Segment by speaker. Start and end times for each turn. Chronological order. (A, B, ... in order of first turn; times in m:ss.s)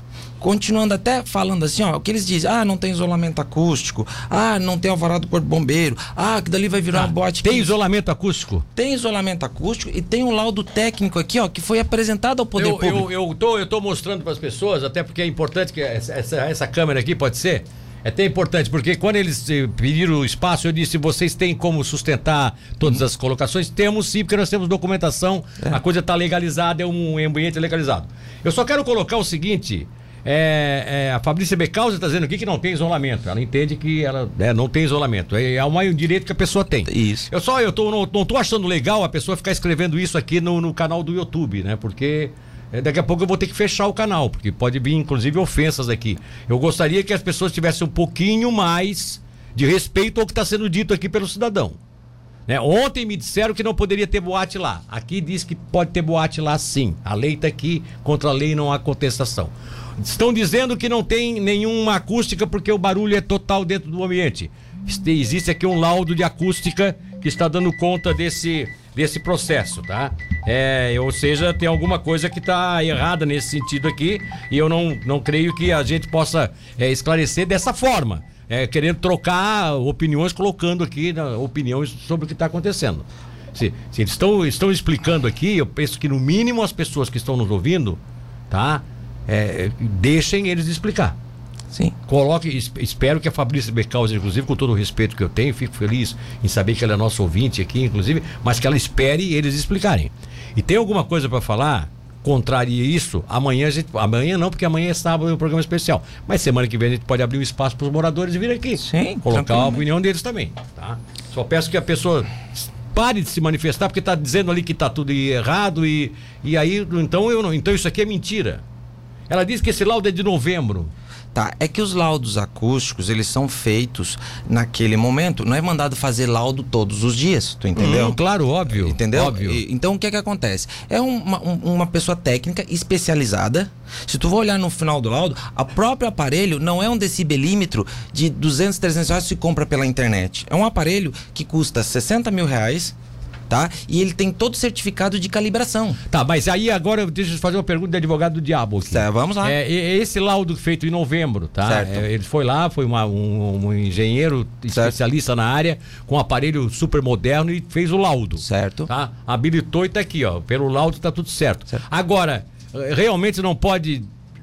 0:00.4-0:07.7 A
0:06.9-0:08.7 B
0:08.8-0:13.1 A
0:12.6-0:51.8 B
0:36.9-0:37.3 A
0:52.5-1:28.0 B
1:28.5-1:31.2 B
1:32.1-1:58.6 B
1:48.8-1:49.8 A
1:59.3-2:00.9 B
2:01.3-2:22.9 A
2:07.7-2:09.6 B
2:23.5-2:26.0 A
2:26.1-2:44.1 B
2:28.8-2:29.6 A
2:31.6-2:32.1 A
2:38.4-2:38.9 A